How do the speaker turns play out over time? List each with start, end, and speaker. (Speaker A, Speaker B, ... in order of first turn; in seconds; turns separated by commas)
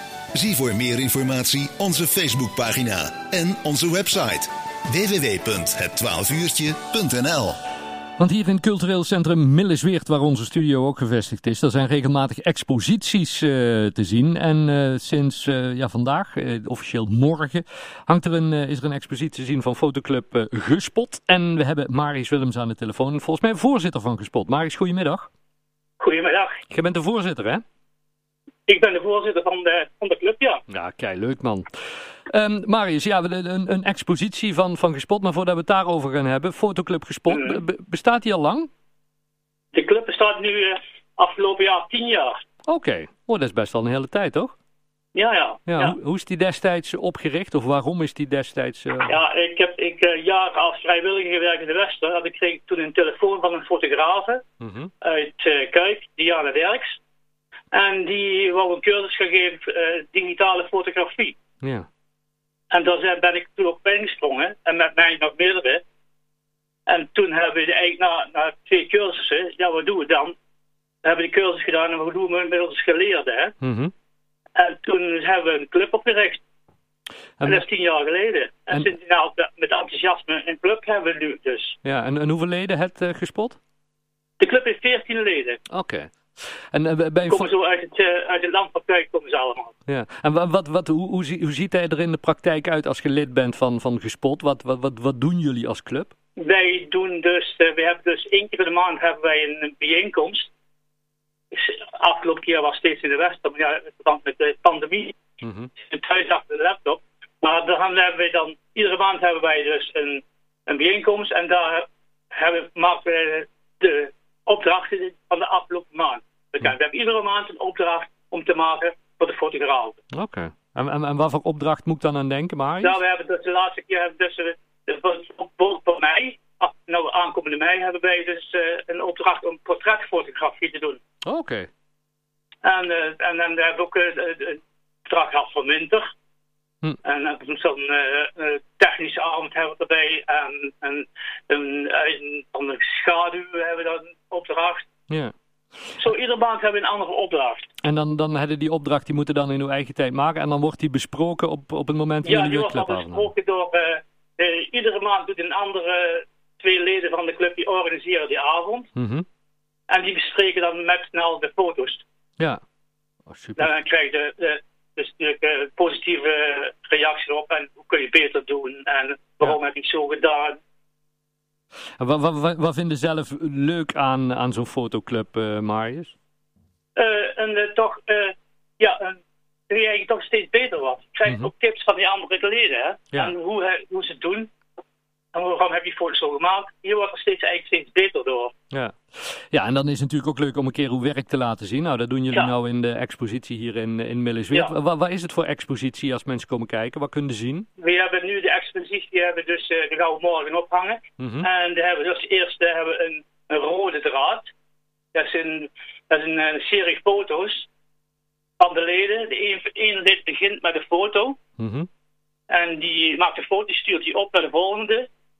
Speaker A: 0.3-7.6, Speaker B: 8.2-25.3, Speaker C: 26.0-26.6, Speaker B: 26.7-27.6, Speaker C: 28.7-30.6, Speaker B: 30.7-31.7, Speaker B: 32.3-38.7, Speaker C: 37.3-37.6, Speaker C: 39.7-42.3, Speaker B: 42.7-44.5, Speaker C: 45.1-46.0, Speaker B: 45.7-49.1, Speaker C: 49.0-54.4, Speaker B: 54.6-54.9, Speaker C: 55.0-57.0, Speaker C: 57.7-61.4, Speaker B: 61.6-61.9, Speaker C: 62.7-65.8, Speaker C: 66.9-70.3, Speaker C: 71.0-73.5, Speaker B: 73.6-73.9, Speaker C: 74.5-76.4, Speaker B: 77.4-77.6, Speaker C: 77.4-81.8, Speaker B: 81.8-83.6, Speaker C: 84.4-85.6, Speaker B: 85.7-87.5, Speaker C: 87.3-89.7, Speaker B: 89.9-96.1, Speaker C: 96.4-100.5, Speaker C: 101.5-105.2, Speaker B: 105.4-105.7, Speaker C: 105.8-120.0, Speaker B: 120.1-123.0, Speaker C: 122.8-131.0, Speaker B: 131.2-131.7, Speaker C: 132.6-136.1, Speaker C: 137.0-144.9, Speaker C: 146.0-147.7, Speaker B: 147.8-153.3, Speaker C: 152.2-158.9, Speaker B: 158.9-159.2, Speaker C: 159.9-162.0, Speaker B: 163.3-163.8, Speaker C: 163.6-170.6, Speaker B: 172.0-176.1, Speaker C: 176.9-179.2, Speaker C: 179.7-184.5, Speaker B: 181.2-181.5, Speaker C: 185.3-188.5, Speaker B: 188.7-197.7, Speaker C: 197.8-204.5, Speaker B: 201.2-201.5, Speaker C: 205.1-207.7, Speaker C: 208.6-211.4, Speaker B: 211.6-211.9, Speaker C: 212.5-215.1